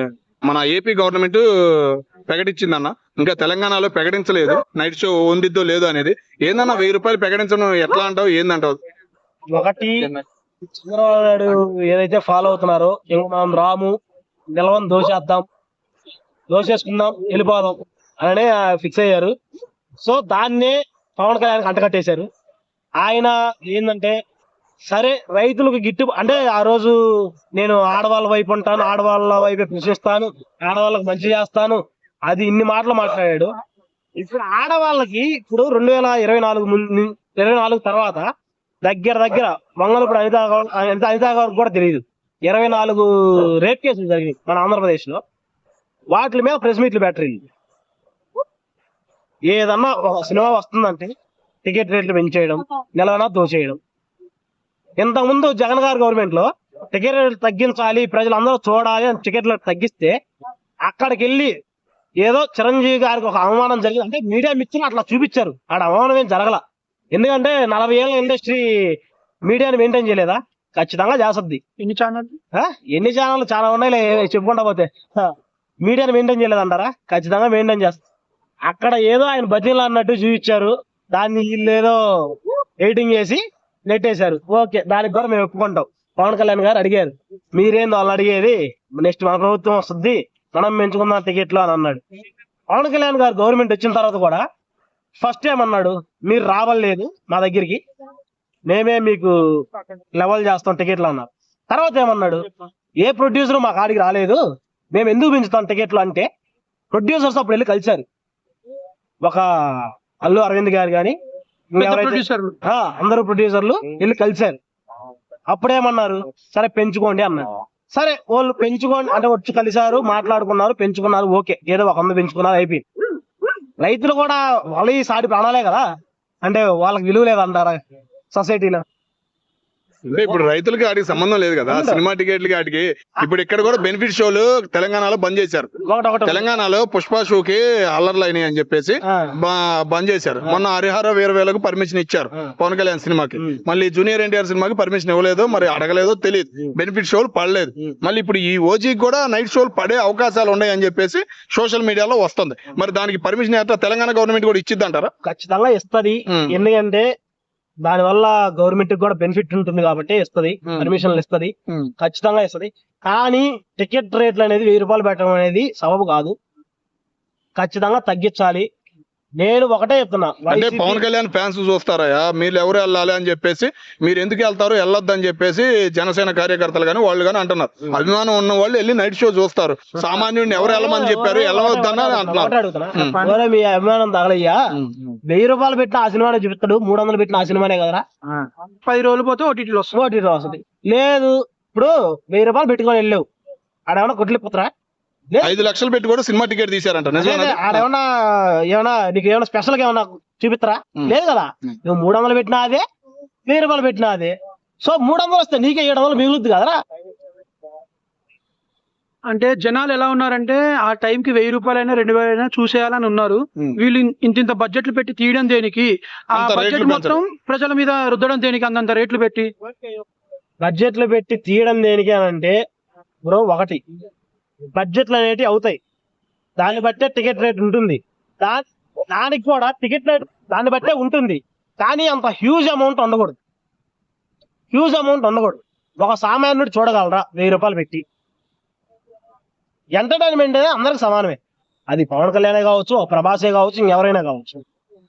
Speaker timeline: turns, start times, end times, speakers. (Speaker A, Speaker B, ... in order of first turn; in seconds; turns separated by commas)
Speaker A: 0.4-8.8, Speaker B: 9.5-10.1, Speaker B: 10.7-14.0, Speaker B: 14.5-15.5, Speaker B: 16.5-19.3, Speaker B: 20.0-22.3, Speaker B: 23.0-24.2, Speaker B: 24.9-27.0, Speaker B: 27.5-33.5, Speaker B: 34.2-38.3, Speaker B: 38.8-45.2, Speaker B: 46.1-47.4, Speaker B: 49.5-51.1, Speaker B: 51.6-53.8, Speaker B: 55.0-60.2, Speaker B: 60.9-61.5, Speaker B: 62.2-66.6, Speaker B: 67.1-68.7, Speaker B: 69.5-71.6, Speaker C: 71.8-72.4, Speaker B: 72.6-75.3, Speaker B: 75.8-78.0, Speaker B: 78.7-92.0, Speaker B: 92.7-94.4, Speaker B: 95.2-97.8, Speaker B: 98.7-99.3, Speaker B: 100.2-102.5, Speaker B: 103.0-104.4, Speaker B: 104.9-106.3, Speaker B: 106.9-108.0, Speaker B: 109.2-111.2, Speaker B: 111.8-114.6, Speaker C: 111.8-112.5, Speaker B: 115.5-122.8, Speaker B: 123.8-125.8, Speaker B: 126.4-127.8, Speaker B: 128.3-128.8, Speaker A: 130.1-155.1, Speaker B: 131.7-132.0, Speaker B: 135.9-136.4, Speaker B: 139.1-139.3, Speaker B: 155.2-157.1, Speaker B: 157.8-166.3, Speaker B: 167.6-168.7, Speaker B: 169.4-171.0, Speaker A: 170.5-183.2, Speaker B: 180.5-184.6, Speaker C: 183.0-183.4, Speaker A: 184.8-185.2, Speaker B: 185.3-188.0, Speaker C: 188.3-189.9, Speaker B: 189.9-193.2, Speaker B: 193.9-194.7, Speaker B: 195.3-195.6, Speaker A: 195.4-197.9, Speaker B: 197.2-202.8, Speaker B: 203.5-206.8, Speaker C: 209.3-219.5, Speaker A: 216.3-217.2, Speaker B: 220.6-222.6, Speaker B: 223.3-223.8, Speaker B: 224.8-225.8, Speaker B: 226.6-233.4, Speaker B: 234.7-238.0, Speaker B: 240.0-241.4, Speaker B: 241.9-244.6